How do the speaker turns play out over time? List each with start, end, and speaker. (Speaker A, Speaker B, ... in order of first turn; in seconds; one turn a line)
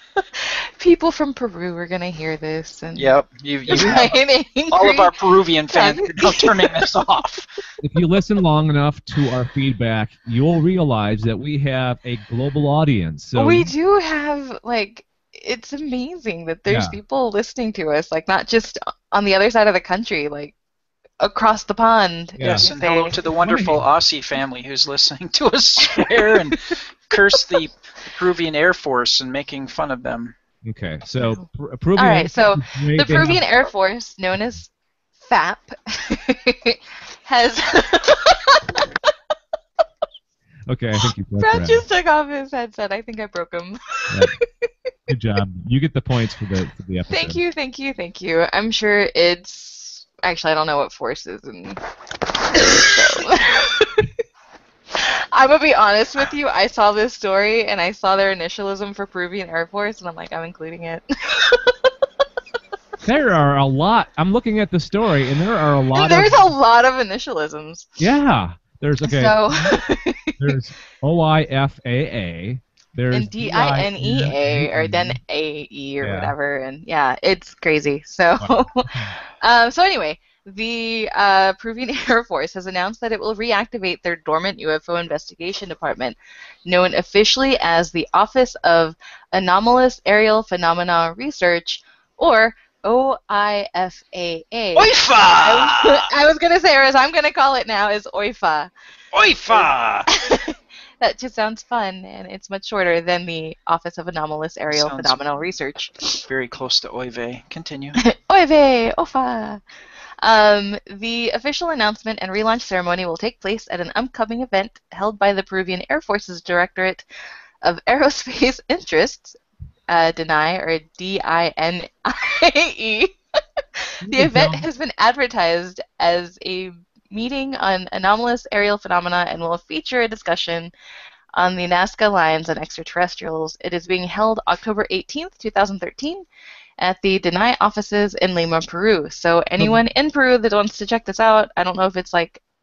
Speaker A: 0.3-3.1
Speaker B: 2.9-4.1
Speaker A: 3.7-5.1
Speaker C: 3.7-4.1
Speaker B: 4.7-7.4
Speaker A: 5.7-6.9
Speaker C: 7.8-13.7
Speaker A: 13.3-20.5
Speaker C: 16.7-17.0
Speaker A: 21.2-23.2
Speaker C: 22.4-22.7
Speaker B: 22.4-30.4
Speaker C: 23.3-23.9
Speaker A: 25.9-26.8
Speaker C: 30.6-33.4
Speaker A: 32.0-38.9
Speaker C: 40.7-41.8
Speaker A: 41.4-44.7
Speaker C: 45.1-47.4
Speaker A: 47.1-51.8
Speaker A: 52.5-54.1
Speaker A: 54.9-61.9
Speaker C: 63.0-66.5
Speaker A: 65.9-67.9
Speaker C: 68.0-69.8
Speaker A: 69.0-70.6
Speaker C: 70.4-75.2
Speaker A: 73.1-98.7
Speaker C: 76.0-76.3
Speaker C: 78.4-79.2
Speaker B: 94.8-96.1
Speaker B: 99.1-100.1
Speaker A: 99.5-106.2
Speaker B: 104.7-105.2
Speaker B: 106.3-108.0
Speaker A: 108.0-109.6
Speaker A: 110.2-117.1
Speaker A: 117.6-130.7
Speaker C: 124.0-124.6
Speaker A: 131.3-136.3
Speaker A: 136.8-142.4